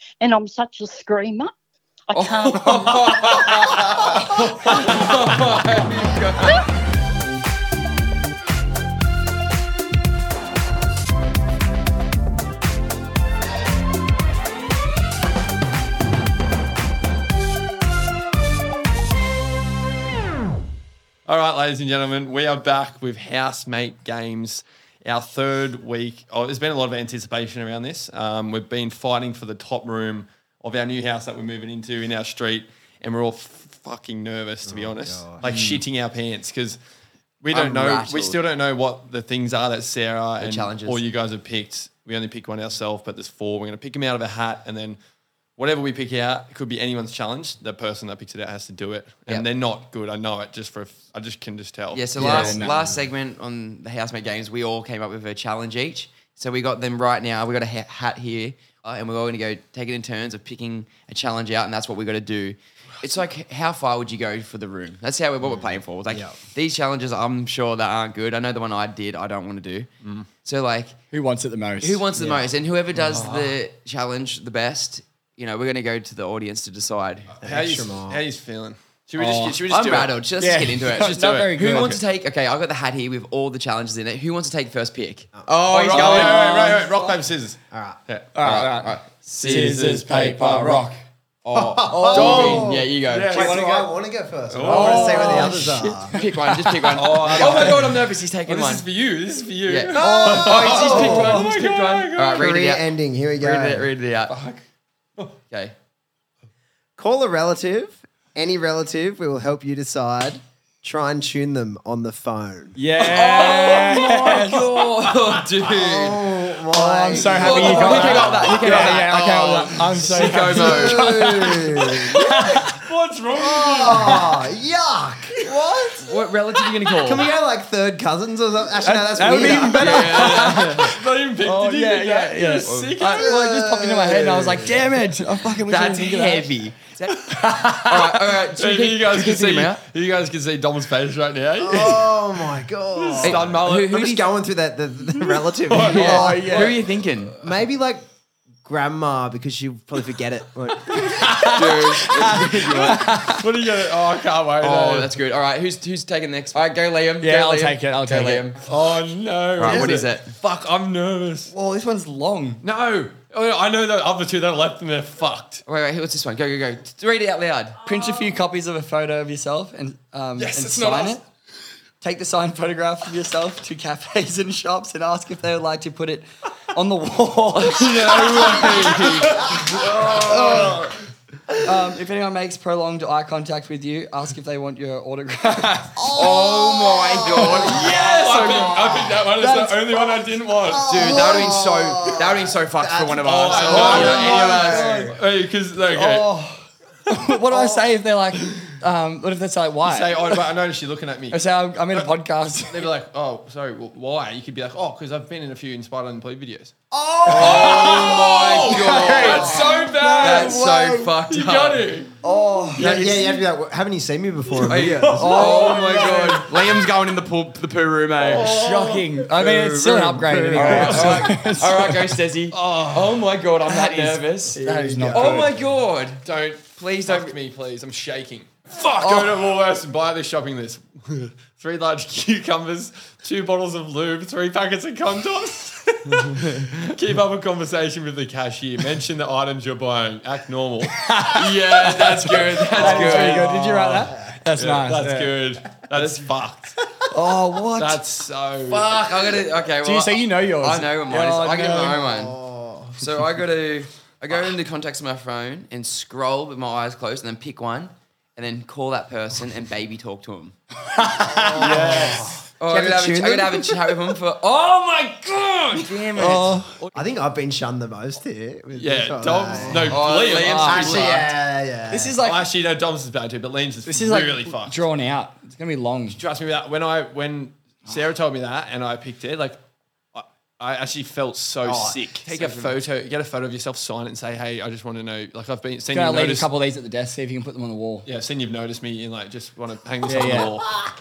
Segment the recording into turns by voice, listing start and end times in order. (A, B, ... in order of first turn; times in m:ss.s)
0:00.2-0:01.5 A
0:02.1-0:03.0 A
0:02.1-0:06.6 B
0:02.9-0:05.5 C
0:21.3-0:36.8 C
0:34.6-0:35.5 D
0:35.5-0:35.8 E
0:37.4-0:45.0 C
0:37.5-0:38.4 B
0:40.4-0:41.0 B
0:45.6-0:52.9 C
0:51.9-1:09.9 B
0:52.2-0:52.7 E
1:05.4-1:06.4 D
1:10.4-1:11.0 B
1:11.1-1:12.0 E
1:11.8-1:17.4 B
1:12.2-1:12.5 D
1:13.0-1:13.6 C
1:17.3-1:20.2 C
1:17.4-1:18.2 D
1:19.2-1:19.6 E
1:19.6-1:26.8 B
1:20.4-1:22.0 E
1:20.9-1:22.0 C
1:25.7-1:28.4 C
1:26.0-1:26.8 E
1:27.7-1:28.0 D
1:28.3-1:31.0 E
1:28.4-1:29.8 B
1:29.3-1:30.9 C
1:31.4-1:33.6 B
1:31.5-1:36.2 D
1:31.9-1:32.6 E
1:32.1-1:33.6 C
1:33.6-1:33.8 E
1:34.5-1:35.6 C
1:34.7-1:36.9 E
1:34.8-1:38.8 B
1:36.9-1:42.6 C
1:39.7-1:44.4 B
1:40.0-1:41.5 D
1:42.3-1:43.9 D
1:44.3-1:44.6 C
1:47.0-1:52.8 D
1:52.8-1:54.7 E
1:53.0-1:56.3 B
1:55.6-1:59.0 D
1:56.7-2:02.8 E
1:57.2-2:01.2 B
1:58.0-1:58.5 C
2:00.3-2:02.2 D
2:02.3-2:04.3 C
2:03.3-2:06.1 D
2:06.0-2:07.3 B
2:07.0-2:10.8 D
2:08.8-2:10.8 E
2:09.2-2:10.9 B
2:09.5-2:13.4 C
2:11.4-2:16.5 E
2:12.6-2:12.9 B
2:13.0-2:14.9 D
2:15.5-2:19.8 B
2:17.3-2:17.9 E
2:18.4-2:22.4 C
2:21.6-2:26.8 D
2:22.9-2:24.2 C
2:23.2-2:24.3 B
2:25.5-2:26.7 C
2:25.8-2:27.4 B
2:26.0-2:26.8 E
2:27.4-2:28.1 D
2:28.6-2:31.1 D
2:30.9-2:32.3 C
2:31.5-2:33.5 B
2:32.9-2:35.2 C
2:34.6-2:38.6 B
2:37.2-2:38.5 E
2:38.6-2:41.5 C
2:39.6-2:40.4 B
2:41.5-2:42.6 E
2:42.6-2:45.6 C
2:45.7-2:47.8 B
2:47.8-2:51.2 E
2:50.4-2:51.2 C
2:52.0-2:58.9 E
2:57.5-2:59.5 B
2:58.2-3:00.8 C
2:59.7-3:00.9 E
2:59.9-3:00.4 D
3:01.6-3:06.0 E
3:06.0-3:08.8 D
3:06.1-3:08.7 B
3:07.4-3:11.5 C
3:09.3-3:10.1 E
3:10.7-3:15.1 D
3:10.8-3:15.1 B
3:13.2-3:16.3 C
3:13.8-3:15.1 E
3:15.9-3:20.4 E
3:17.5-3:17.8 D
3:19.8-3:21.4 C
3:21.3-3:22.9 E
3:22.7-3:26.8 C
3:26.9-3:31.1 D
3:27.3-3:29.7 B
3:27.3-3:32.1 C
3:29.1-3:30.4 E
3:30.2-3:31.8 B
3:32.2-3:33.4 E
3:32.7-3:36.4 D
3:34.6-3:38.6 B
3:34.7-3:36.5 E
3:38.2-3:39.3 C
3:38.3-3:42.0 E
3:39.4-3:41.2 D
3:39.4-3:44.6 B
3:40.6-3:41.4 C
3:42.5-3:43.4 C
3:43.7-3:45.5 E
3:44.6-3:45.5 D
3:45.1-3:46.2 B
3:46.2-4:01.0 C
3:46.8-3:47.3 B
3:49.0-3:49.3 E
4:01.0-4:02.2 E
4:01.3-4:03.5 B
4:01.7-4:06.8 C
4:02.7-4:05.4 E
4:04.0-4:04.4 D
4:07.1-4:08.0 E
4:07.8-4:09.4 C
4:08.7-4:12.4 B
4:09.8-4:12.0 E
4:11.6-4:13.0 D
4:13.0-4:20.6 B
4:21.0-4:22.2 E
4:21.2-4:24.0 D
4:21.6-4:22.3 C
4:22.6-4:26.6 B
4:24.8-4:26.1 C
4:26.2-4:30.1 D
4:26.2-4:26.8 E
4:28.7-4:31.1 C
4:29.8-4:31.3 B
4:30.3-4:30.8 E
4:30.6-4:32.2 D
4:31.9-4:32.4 E
4:32.2-4:34.8 C
4:33.9-4:36.2 E
4:36.1-4:39.6 C
4:40.1-4:46.5 C
4:41.6-4:42.0 D
4:42.3-4:42.8 B
4:45.9-4:48.1 E
4:48.0-4:50.8 C
4:50.1-4:50.5 E